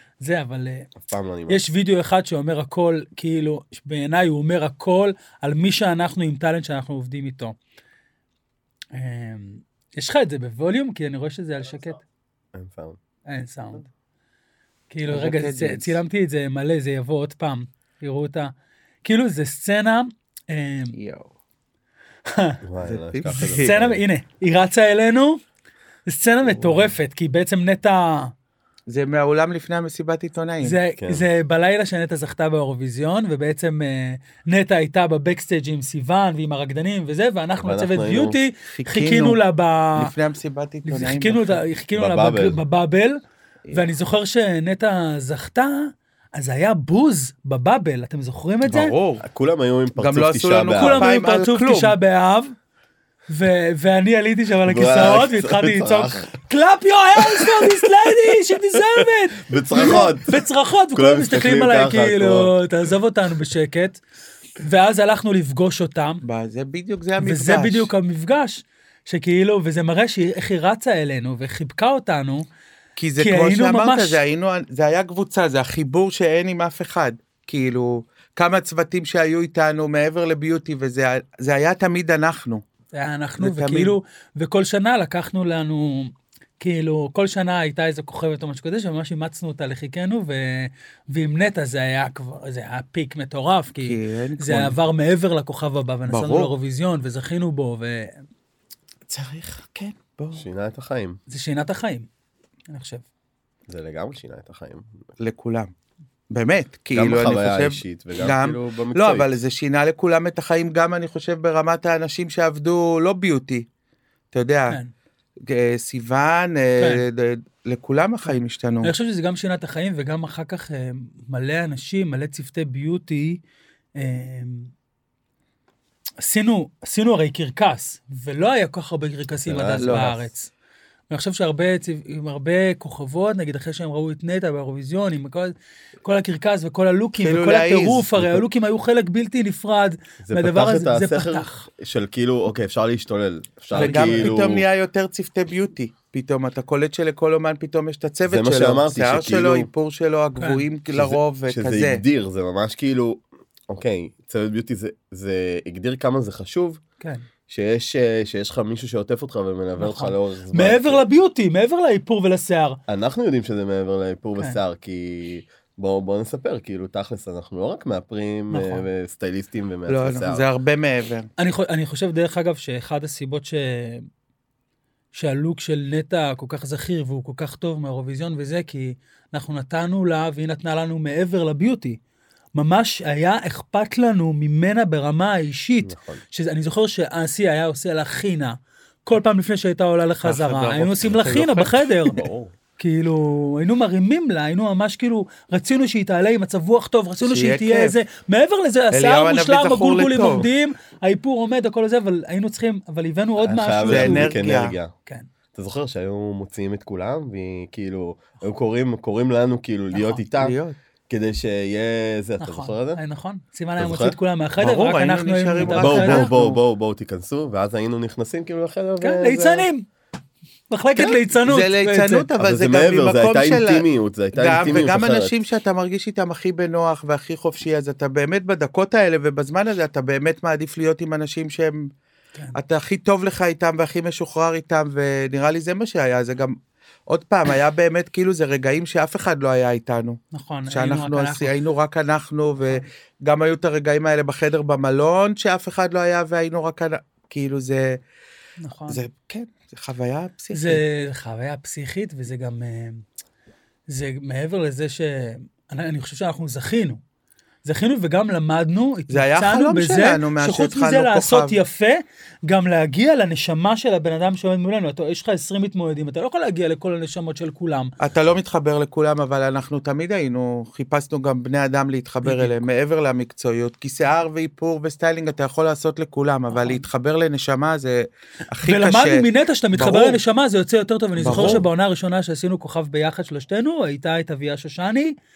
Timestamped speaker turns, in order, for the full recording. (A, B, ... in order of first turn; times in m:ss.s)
0:00.2-0:00.9 A
0:01.0-0:01.6 B
0:01.5-0:07.6 A
0:08.9-0:12.0 A
0:12.5-0:13.0 B
0:13.3-0:13.9 A
0:14.9-0:18.5 A
0:15.1-0:16.0 C
0:19.0-0:21.0 A
0:21.0-0:21.3 C
0:22.3-0:22.6 A
0:22.6-0:24.0 B
0:22.8-0:23.8 C
0:23.3-0:25.4 A
0:26.1-0:28.3 A
0:26.6-0:26.9 C
0:28.9-0:30.8 C
0:30.6-0:40.1 A
0:31.0-0:31.3 B
0:37.6-0:38.4 B
0:38.7-0:39.4 C
0:40.0-0:41.6 C
0:40.8-0:43.2 A
0:42.0-0:42.6 B
0:43.7-0:48.9 A
0:48.6-0:49.2 C
0:49.2-0:51.1 B
0:50.0-0:52.0 C
0:50.8-0:52.6 A
0:53.3-1:04.0 A
0:54.6-0:56.3 B
0:59.0-1:02.5 B
1:04.6-1:06.2 A
1:06.2-1:07.9 C
1:07.2-1:12.5 A
1:13.0-1:22.6 C
1:13.2-1:14.2 A
1:22.9-1:38.2 A
1:23.4-1:24.0 C
1:33.8-1:34.8 C
1:36.1-1:36.5 C
1:39.1-1:40.5 C
1:40.4-1:41.2 B
1:41.3-1:42.1 A
1:42.7-1:43.0 A
1:43.7-1:44.9 B
1:45.2-1:45.7 C
1:46.3-1:53.7 C
1:46.9-1:49.3 B
1:54.3-1:54.8 C
1:55.5-1:58.9 C
1:56.8-1:57.0 A
1:58.3-2:03.4 A
2:04.0-2:04.7 A
2:06.2-2:10.5 A
2:09.4-2:10.1 B
2:09.7-2:10.2 C
2:11.1-2:21.7 A
2:17.2-2:18.1 C
2:20.2-2:24.6 B
2:23.7-2:24.4 A
2:23.8-2:32.0 C
2:28.2-2:29.7 B
2:30.9-2:36.8 B
2:37.5-2:41.0 B
2:39.8-2:42.8 A
2:42.9-2:50.4 B
2:48.5-2:48.8 A
2:49.9-2:51.3 C
2:51.4-2:54.1 A
2:55.1-3:02.0 A
3:02.6-3:12.2 A
3:05.8-3:06.2 B
3:10.2-3:11.9 C
3:12.1-3:12.5 B
3:12.8-3:24.3 A
3:17.2-3:18.0 C
3:18.9-3:20.5 C
3:23.4-3:24.9 B
3:23.9-3:24.8 C
3:25.5-3:30.6 B
3:29.9-3:30.2 A
3:30.4-3:30.8 C
3:31.1-3:33.0 B
3:32.4-3:36.3 A
3:33.8-3:34.2 B
3:34.6-3:36.6 C
3:35.8-3:39.7 B
3:39.0-3:39.9 A
3:40.7-3:42.3 A
3:41.3-3:51.9 C
3:42.4-3:45.3 B
3:52.6-3:56.6 C
3:57.1-4:00.2 C
4:00.3-4:01.6 A
4:00.7-4:08.0 C
4:08.6-4:09.0 A
4:08.9-4:10.8 C
4:10.5-4:13.0 A
4:13.9-4:17.0 A
4:17.6-4:27.9 A
4:19.1-4:21.6 C
4:28.0-4:40.2 C
4:32.2-4:32.6 A
4:36.5-4:36.8 A
4:38.6-4:45.2 A
4:41.2-4:41.6 C
4:41.3-4:41.6 B